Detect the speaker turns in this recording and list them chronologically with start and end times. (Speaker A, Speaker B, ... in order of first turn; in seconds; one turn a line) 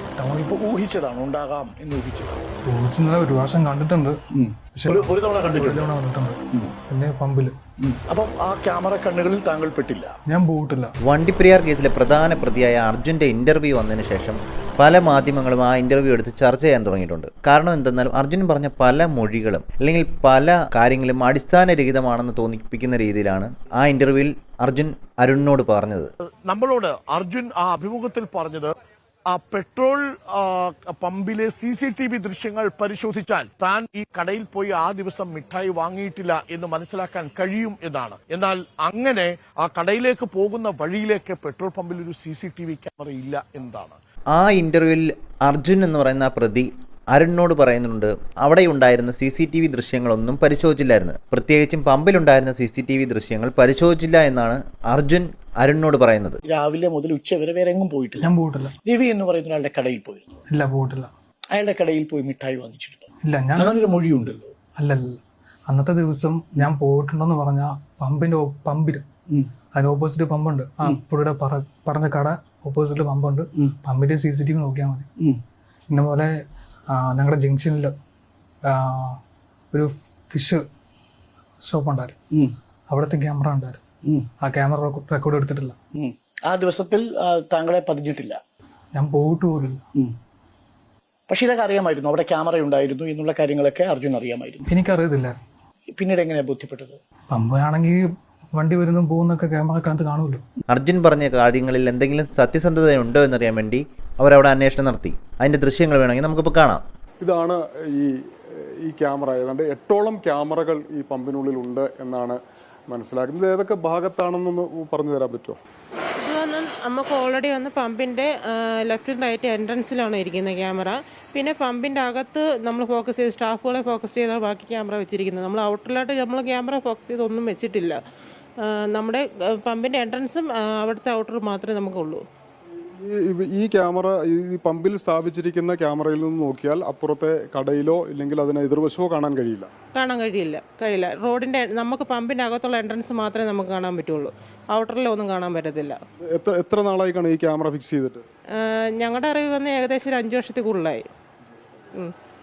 Speaker A: 0.2-0.7
Speaker B: 0.5-2.5
Speaker A: 2.7-4.2
Speaker B: 4.3-5.9
Speaker A: 4.8-7.6
Speaker B: 7.8-10.2
Speaker A: 10.3-10.9
Speaker C: 11.1-26.1
Speaker D: 26.4-28.7
Speaker D: 29.3-44.0
Speaker C: 44.4-56.4
Speaker B: 56.5-58.3
Speaker A: 58.2-58.7
Speaker B: 58.8-60.4
Speaker A: 60.5-61.1
Speaker B: 61.5-64.5
Speaker A: 63.2-63.8
Speaker A: 64.8-65.2
Speaker A: 65.7-69.1
Speaker A: 69.7-75.1
Speaker A: 75.9-76.3
Speaker A: 76.9-77.9
Speaker A: 78.7-79.2
Speaker A: 79.7-80.6
Speaker A: 81.6-82.2
Speaker A: 82.9-83.8
Speaker A: 84.4-85.8
Speaker B: 86.0-88.4
Speaker A: 88.9-89.8
Speaker B: 91.3-94.6
Speaker A: 94.7-95.4
Speaker B: 95.9-97.0
Speaker A: 97.3-98.0
Speaker A: 98.6-100.4
Speaker C: 100.7-106.8
Speaker E: 107.2-112.4
Speaker E: 112.9-115.6
Speaker F: 116.2-128.0
Speaker F: 128.6-132.2
Speaker E: 132.9-139.7
Speaker F: 139.9-146.0
Speaker E: 146.3-148.2
Speaker F: 148.6-151.1